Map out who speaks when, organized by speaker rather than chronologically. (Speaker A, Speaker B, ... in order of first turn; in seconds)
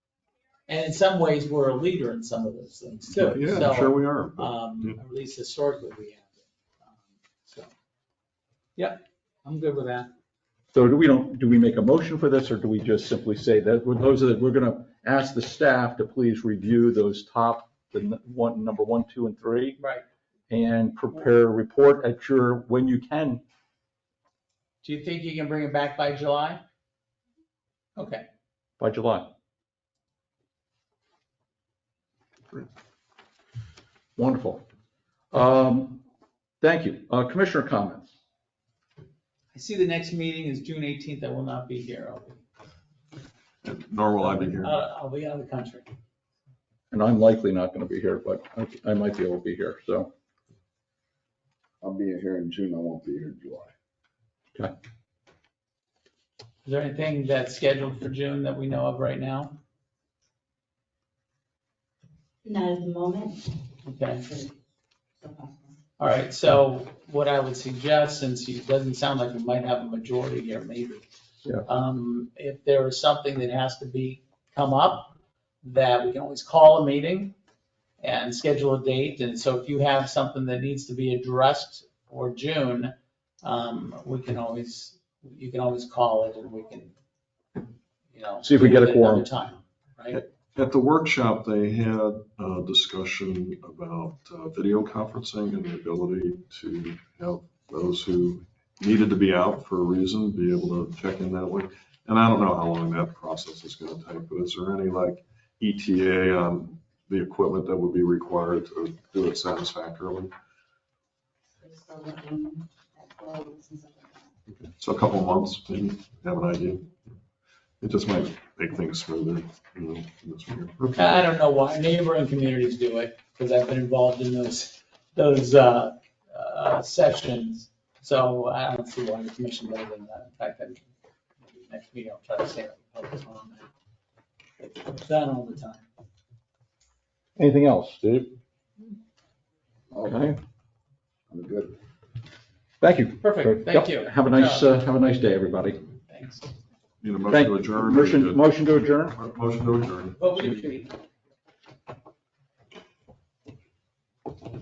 Speaker A: 0.7-6.3, 6.9-7.7, 8.8-10.1, 19.8-20.0, 24.8-26.6, 27.9-28.2, 39.5-42.4, 44.4-45.9, 56.6-59.6, 63.9-64.2, 66.0-71.0, 71.6-77.3, 78.0-86.9, 88.1-90.2, 121.0-130.8, 131.4-133.7, 134.6-135.8, 143.2-144.6, 146.1-146.5, 150.2-150.9
Speaker B: 3.1-5.0, 43.6-44.8, 90.1-110.3, 114.6-116.9, 117.8-121.2, 147.0-148.4, 149.1-150.6
Speaker C: 10.7-19.8, 20.5-23.4, 28.8-29.3, 34.1-34.6, 35.3-36.0, 36.6-38.1, 46.9-50.1, 88.4-89.3, 137.4-138.3, 140.0-140.4, 142.8-145.8, 147.3-149.2
Speaker D: 51.8-53.7, 139.9-140.2, 141.3-141.7
Speaker E: 62.4-63.5, 64.2-64.5, 65.2-65.6, 111.6-114.3